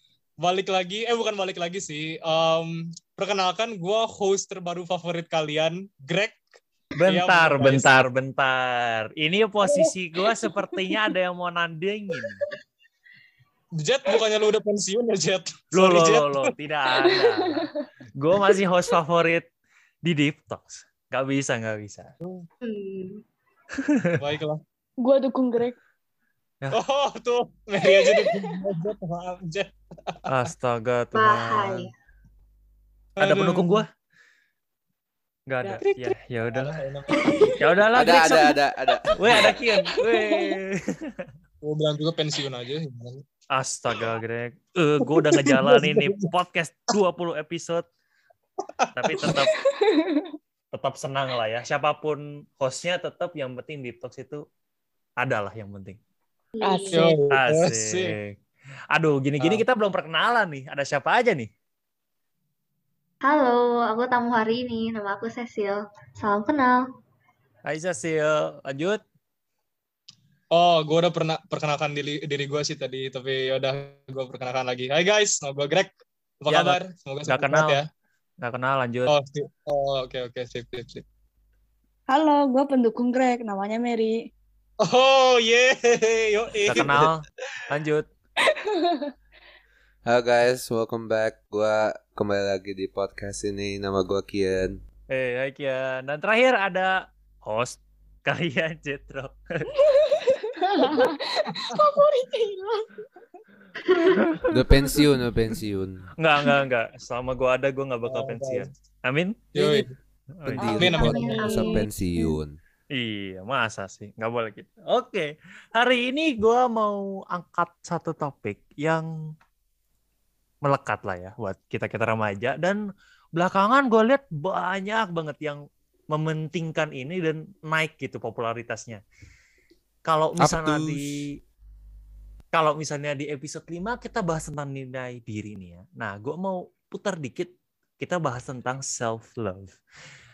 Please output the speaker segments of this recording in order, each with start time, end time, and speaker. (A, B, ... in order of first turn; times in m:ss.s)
0:00.4-0:06.4 A
0:07.0-0:12.4 B
0:07.0-0:08.0 A
0:13.8-0:16.5 A
0:15.7-0:19.5 B
0:20.0-0:22.1 B
0:22.6-0:23.2 C
0:23.8-0:24.4 B
0:24.2-0:24.6 A
0:25.0-0:25.8 D
0:26.7-0:30.3 A
0:27.8-0:28.5 D
0:30.3-0:31.9 B
0:31.1-0:31.9 C
0:33.2-0:33.8 A
0:33.2-0:33.9 B
0:35.5-0:36.8 B
0:35.8-0:37.7 A
0:37.1-0:37.6 D
0:37.6-0:38.5 B
0:37.9-0:39.6 E
0:39.1-0:40.0 A
0:39.2-0:41.2 B
0:41.6-0:43.2 A
0:43.5-0:47.8 B
0:45.0-0:46.3 A
0:48.8-0:49.5 A
0:49.0-0:49.5 B
0:49.8-0:50.3 D
0:50.7-0:54.4 B
0:55.2-0:56.0 B
0:56.6-0:57.0 C
0:56.6-0:57.2 D
0:56.9-0:58.2 A
0:57.3-0:58.3 B
0:58.9-1:01.5 B
1:03.2-1:06.8 C
1:07.7-1:09.0 B
1:10.5-1:17.8 A
1:16.5-1:16.8 B
1:17.3-1:17.8 B
1:18.4-1:19.1 B
1:19.1-1:21.0 A
1:22.1-1:24.2 D
1:24.8-1:27.1 A
1:26.7-1:28.1 B
1:28.5-1:29.1 D
1:30.0-1:34.8 E
1:35.1-1:39.7 B
1:39.9-1:42.9 D
1:40.8-1:41.8 A
1:43.9-1:44.2 C
1:44.5-1:46.1 E
1:46.2-1:49.8 B
1:48.1-1:48.7 A
1:49.5-1:49.9 A
1:50.4-1:51.1 B
1:50.6-1:52.6 E
1:50.7-1:51.9 D
1:50.8-1:51.6 A
1:50.8-1:51.9 C
1:52.9-1:59.1 B
2:00.6-2:02.8 B
2:03.4-2:05.6 B
2:06.1-2:09.0 B
2:10.1-2:11.3 B
2:10.4-2:11.0 E
2:12.5-2:17.5 B
2:18.0-2:19.8 B